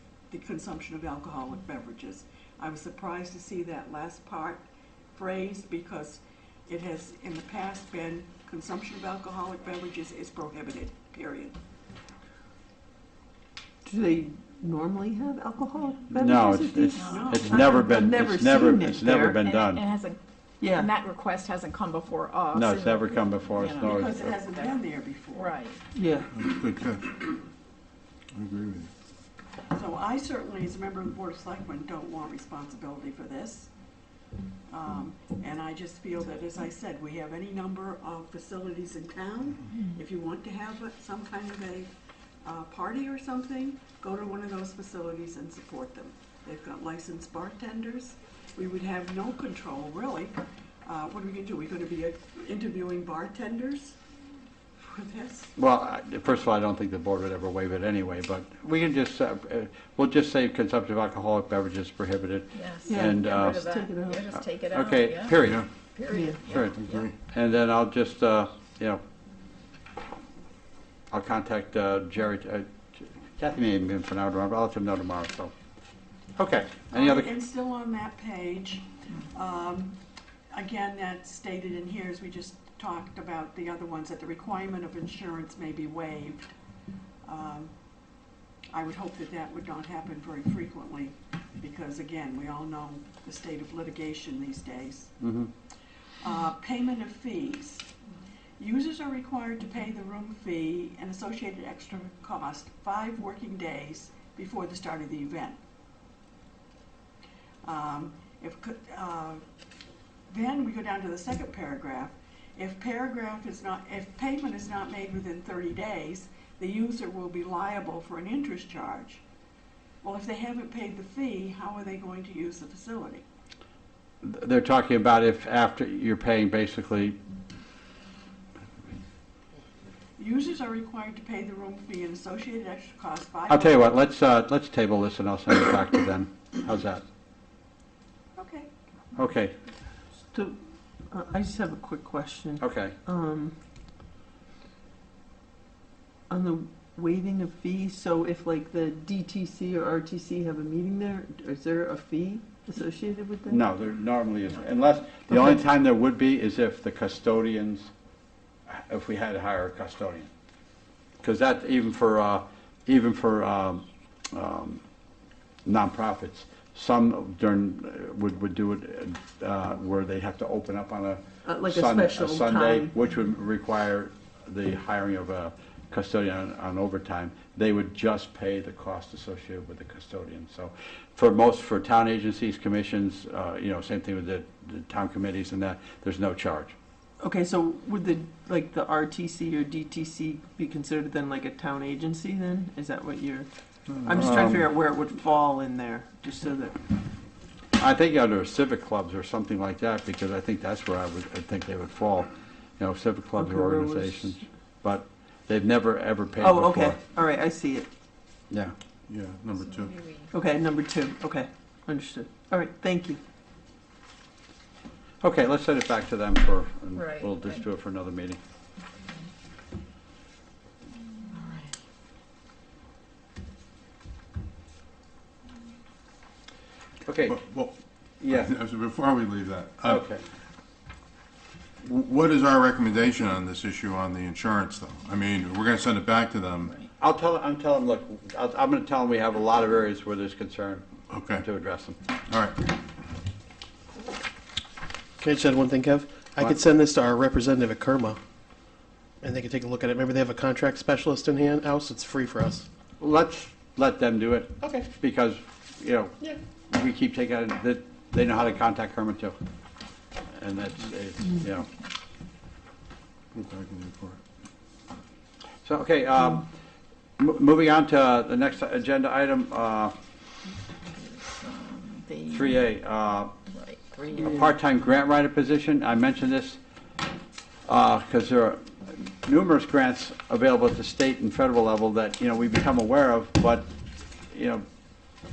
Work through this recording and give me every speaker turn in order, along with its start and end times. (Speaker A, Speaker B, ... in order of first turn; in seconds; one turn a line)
Speaker A: 0.3-11.6
Speaker B: 13.8-19.4
Speaker C: 16.1-19.8
Speaker D: 16.9-17.2
Speaker A: 17.0-17.7
Speaker D: 19.4-24.8
Speaker B: 20.6-20.9
Speaker C: 22.5-24.4
Speaker A: 23.8-25.6
Speaker D: 25.3-25.8
Speaker B: 25.9-26.3
Speaker E: 26.3-27.2
Speaker E: 28.3-28.9
Speaker A: 29.7-33.7
Speaker A: 34.7-41.9
Speaker A: 42.4-54.0
Speaker A: 54.8-55.5
Speaker C: 55.6-63.6
Speaker D: 62.5-66.6
Speaker B: 62.8-64.2
Speaker C: 64.3-65.7
Speaker E: 65.4-65.7
Speaker B: 66.1-66.4
Speaker C: 66.5-66.8
Speaker E: 66.5-67.2
Speaker C: 67.3-69.0
Speaker C: 71.1-75.5
Speaker C: 76.4-77.3
Speaker A: 76.9-80.0
Speaker A: 80.5-86.4
Speaker A: 87.2-87.7
Speaker A: 88.7-95.2
Speaker C: 95.2-95.5
Speaker A: 96.2-97.9
Speaker A: 98.6-105.6
Speaker A: 107.6-109.4
Speaker A: 110.3-119.2
Speaker A: 120.0-123.2
Speaker C: 124.2-127.2
Speaker A: 130.2-134.0
Speaker C: 133.5-137.0
Speaker A: 138.4-138.7
Speaker C: 139.2-139.5
Speaker B: 140.3-140.6
Speaker B: 141.1-143.6
Speaker C: 142.6-142.9
Speaker B: 146.3-153.6
Speaker C: 153.5-157.9
Speaker C: 158.7-160.3
Speaker C: 161.2-164.8
Speaker C: 165.7-186.7
Speaker B: 171.4-172.9
Speaker B: 187.2-193.5
Speaker E: 193.9-194.2
Speaker B: 194.0-196.8
Speaker C: 194.1-194.7
Speaker C: 197.8-207.0
Speaker B: 203.4-204.4
Speaker B: 206.4-207.9
Speaker C: 208.5-208.8
Speaker E: 209.1-210.0
Speaker D: 209.8-210.3
Speaker B: 210.3-213.2
Speaker C: 215.2-218.4
Speaker D: 217.0-217.3
Speaker D: 221.3-221.7
Speaker C: 227.1-227.4
Speaker E: 227.3-227.7
Speaker C: 228.2-228.5
Speaker E: 228.3-230.0
Speaker C: 229.8-230.2
Speaker E: 231.8-236.8
Speaker C: 237.0-240.8
Speaker E: 241.1-241.5
Speaker C: 241.4-242.0
Speaker E: 242.3-242.8
Speaker F: 245.2-248.2
Speaker F: 249.2-252.7
Speaker C: 253.0-259.4
Speaker C: 260.3-261.7
Speaker E: 263.3-264.2
Speaker C: 265.6-266.5
Speaker C: 267.2-269.9
Speaker D: 271.0-272.6
Speaker C: 272.3-273.3
Speaker D: 273.6-274.3
Speaker C: 274.1-276.6
Speaker C: 277.7-283.7
Speaker C: 284.3-284.6